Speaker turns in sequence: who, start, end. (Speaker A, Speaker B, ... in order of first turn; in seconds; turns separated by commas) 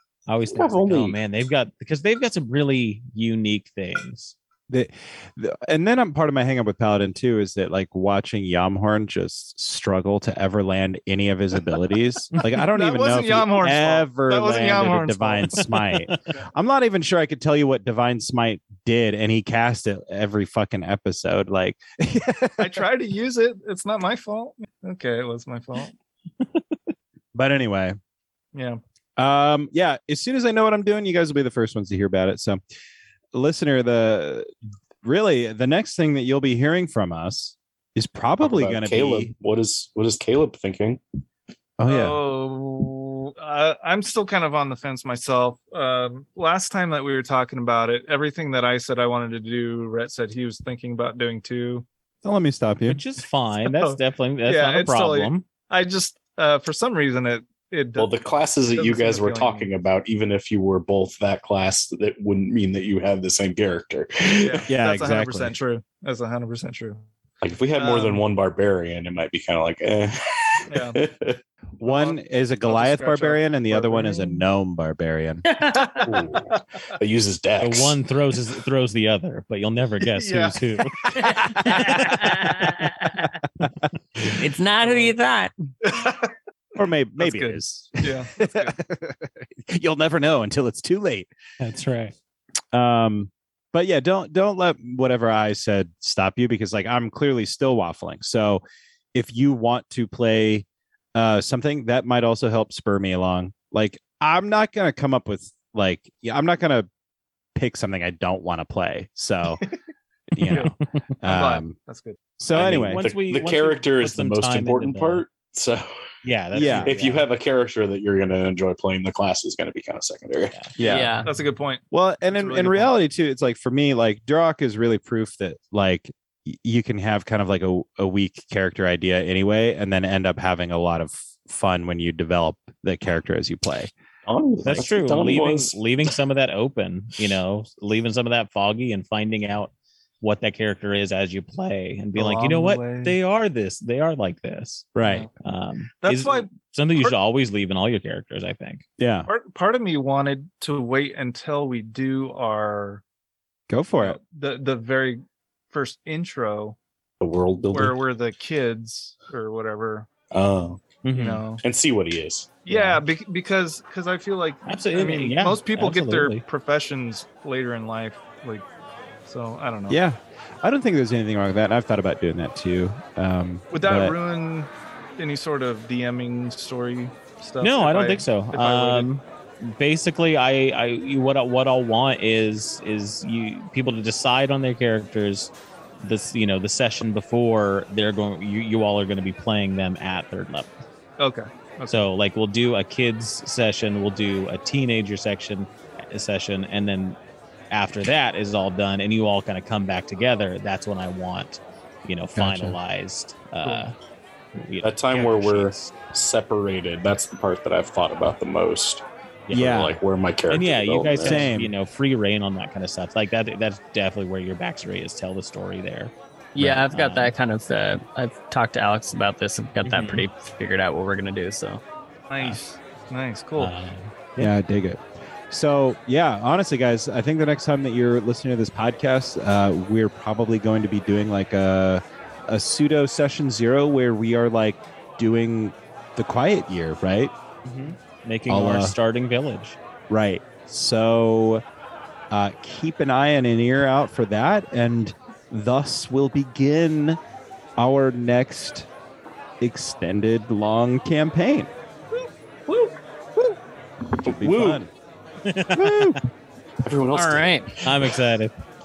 Speaker A: 0.3-4.3, Speaker B: 0.6-1.2, Speaker C: 4.7-22.8, Speaker D: 12.4-15.6, Speaker A: 15.9-16.1, Speaker D: 22.6-25.9, Speaker A: 26.4-26.8, Speaker C: 27.3-28.0, Speaker D: 28.5-28.8, Speaker C: 29.2-32.6, Speaker C: 33.3-34.5, Speaker C: 35.0-39.3, Speaker B: 38.4-41.0, Speaker C: 41.8-42.2, Speaker D: 41.9-51.9, Speaker C: 52.2-53.0, Speaker A: 52.9-55.5, Speaker D: 53.6-59.7, Speaker B: 58.0-64.7, Speaker D: 64.4-67.0, Speaker C: 64.7-65.6, Speaker B: 67.4-71.4, Speaker D: 67.8-68.2, Speaker D: 70.7-71.0, Speaker C: 71.8-75.5, Speaker D: 71.8-74.4, Speaker E: 75.5-76.1, Speaker B: 76.0-78.0, Speaker A: 77.6-81.0, Speaker D: 80.1-81.5, Speaker C: 81.2-82.4, Speaker E: 81.2-83.3, Speaker E: 84.2-85.5, Speaker D: 84.8-85.2, Speaker D: 85.8-86.3, Speaker C: 86.8-91.3, Speaker D: 87.2-88.8, Speaker A: 91.6-92.1, Speaker C: 92.7-98.6, Speaker C: 99.1-106.9, Speaker C: 107.5-109.6, Speaker C: 110.3-111.8, Speaker D: 110.5-112.2, Speaker C: 112.4-113.0, Speaker A: 112.5-115.2, Speaker B: 112.6-115.9, Speaker A: 116.2-117.3, Speaker C: 116.5-116.9, Speaker B: 116.6-120.6, Speaker C: 120.8-121.1, Speaker E: 120.8-121.3, Speaker D: 121.2-122.9, Speaker C: 121.9-133.9, Speaker B: 134.3-136.1, Speaker A: 134.7-148.8, Speaker D: 142.2-143.2, Speaker C: 144.9-145.3, Speaker D: 145.0-145.3, Speaker D: 146.0-147.1, Speaker C: 149.0-149.3, Speaker D: 149.3-153.0, Speaker C: 153.7-154.2, Speaker D: 153.9-156.8, Speaker B: 157.2-158.0, Speaker D: 157.7-160.1, Speaker B: 160.3-161.0, Speaker A: 161.0-161.4, Speaker D: 161.1-161.6, Speaker B: 161.6-162.6, Speaker D: 162.7-168.7, Speaker A: 162.7-163.0, Speaker A: 164.7-166.4, Speaker D: 169.3-170.0, Speaker C: 169.9-174.2, Speaker D: 173.7-179.1, Speaker A: 177.6-190.7, Speaker D: 191.2-192.1, Speaker A: 191.9-197.2, Speaker A: 197.7-203.9, Speaker C: 202.4-202.8, Speaker A: 204.5-205.9, Speaker B: 204.8-211.5, Speaker C: 209.5-210.0, Speaker A: 210.5-217.3, Speaker C: 211.2-211.7, Speaker E: 216.6-221.8, Speaker A: 219.8-220.2, Speaker D: 222.3-223.7, Speaker A: 223.6-224.5, Speaker C: 224.4-237.3, Speaker A: 237.7-239.8, Speaker C: 238.5-239.0, Speaker C: 240.1-241.6, Speaker C: 242.3-247.2, Speaker C: 247.8-248.9, Speaker C: 249.6-251.7, Speaker D: 252.7-252.9, Speaker B: 254.2-254.8, Speaker C: 254.2-254.9, Speaker A: 255.4-256.2, Speaker C: 255.7-256.2, Speaker B: 256.8-258.2, Speaker E: 257.1-257.7, Speaker A: 257.8-258.5